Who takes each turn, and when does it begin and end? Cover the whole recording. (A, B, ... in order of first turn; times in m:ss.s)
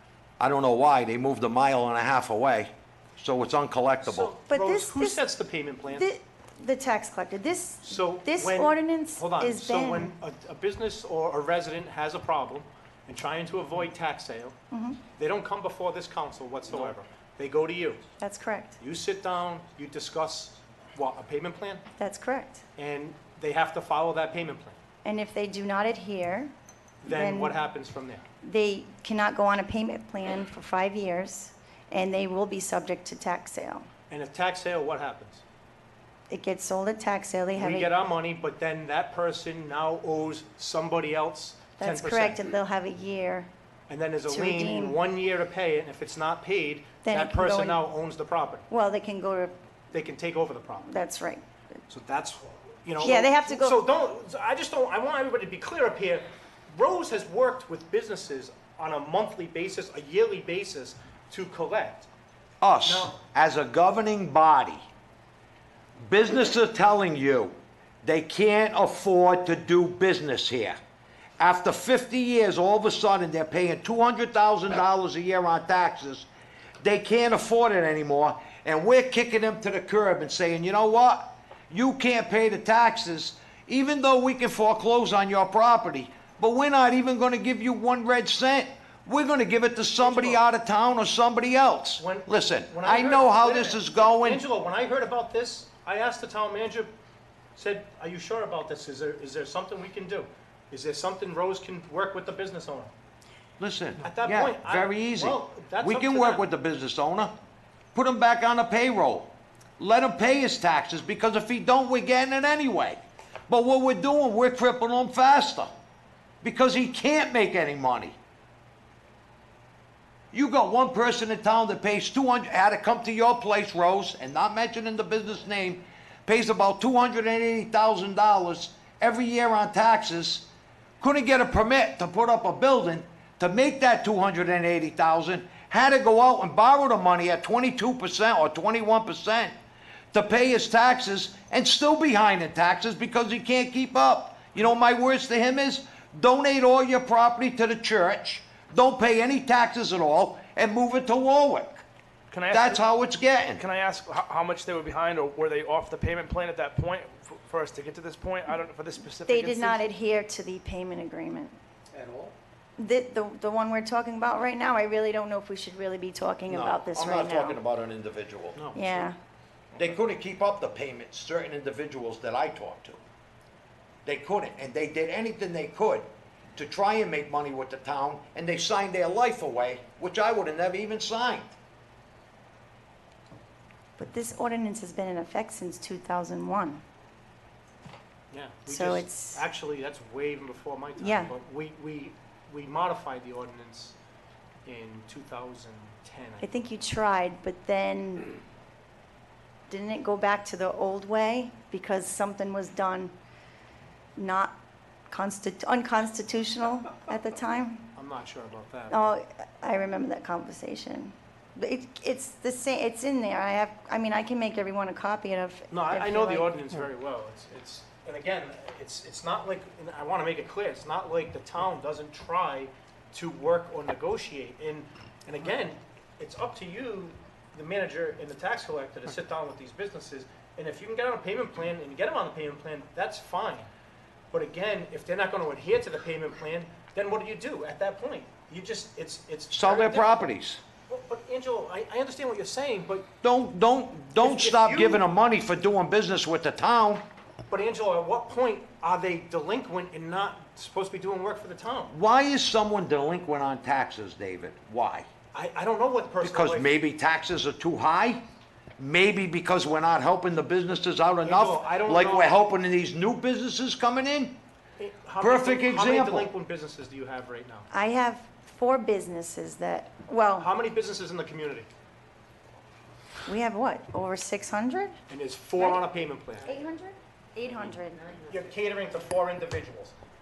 0:00.4-0:04.3 A
0:04.0-0:06.1 B
0:04.5-0:05.2 C
0:05.9-0:10.1 C
0:07.8-0:14.6 B
0:14.7-0:15.0 C
0:15.2-0:18.0 B
0:18.2-0:18.8 C
0:18.8-0:21.8 B
0:22.0-0:22.6 C
0:22.8-0:24.8 B
0:25.0-0:26.5 C
0:27.0-0:28.2 B
0:27.0-0:27.5 C
0:28.4-0:33.9 C
0:34.1-0:35.4 B
0:36.3-0:37.9 C
0:37.6-0:42.4 B
0:41.8-0:43.5 C
0:43.9-0:48.7 B
0:44.3-0:45.0 C
0:47.0-0:47.8 C
0:48.7-0:49.6 C
0:49.9-0:50.9 B
0:50.9-0:51.4 C
0:51.9-1:02.1 B
0:53.0-0:53.8 C
1:02.6-1:04.8 A
1:02.8-1:03.1 B
1:06.1-1:10.8 A
1:11.4-1:16.3 A
1:16.8-1:34.4 A
1:30.0-1:30.4 B
1:32.0-1:36.9 B
1:37.6-1:42.9 B
1:43.6-1:47.3 A
1:44.0-1:46.4 B
1:47.9-1:55.7 A
1:56.4-1:58.2 A
2:00.3-2:10.5 A
2:11.0-2:19.5 A
2:20.1-2:31.8 A
2:32.3-2:32.8 D
2:32.5-2:33.6 A
2:33.6-2:39.8 D
2:39.3-2:41.6 C
2:41.9-2:42.3 B
2:42.8-2:47.6 C
2:46.5-2:48.6 A
2:48.6-2:49.0 B
2:48.7-2:49.2 C
2:49.8-2:53.0 A
2:54.0-3:01.6 A
3:04.0-3:06.8 C
3:08.3-3:14.0 B
3:08.7-3:09.4 C
3:11.0-3:11.3 C
3:14.7-3:16.5 B
3:16.4-3:18.4 C
3:19.7-3:23.1 C
3:24.2-3:24.5 C
3:25.1-3:27.9 C
3:28.0-3:29.2 B
3:28.9-3:36.5 C
3:35.7-3:53.7 B
3:54.3-4:00.2 B
3:59.5-4:00.6 A
4:00.9-4:03.1 B
4:03.2-4:07.0 A
4:04.2-4:05.0 B
4:07.5-4:11.9 B
4:11.9-4:15.1 A
4:15.3-4:16.7 B
4:16.2-4:18.2 A
4:18.8-4:24.4 A
4:21.2-4:22.4 B
4:24.8-4:27.7 B
4:25.2-4:26.3 A
4:27.7-4:30.5 C
4:30.4-4:31.7 B
4:33.3-4:35.0 C
4:35.1-4:36.6 B
4:36.5-4:38.1 C
4:38.2-4:40.0 B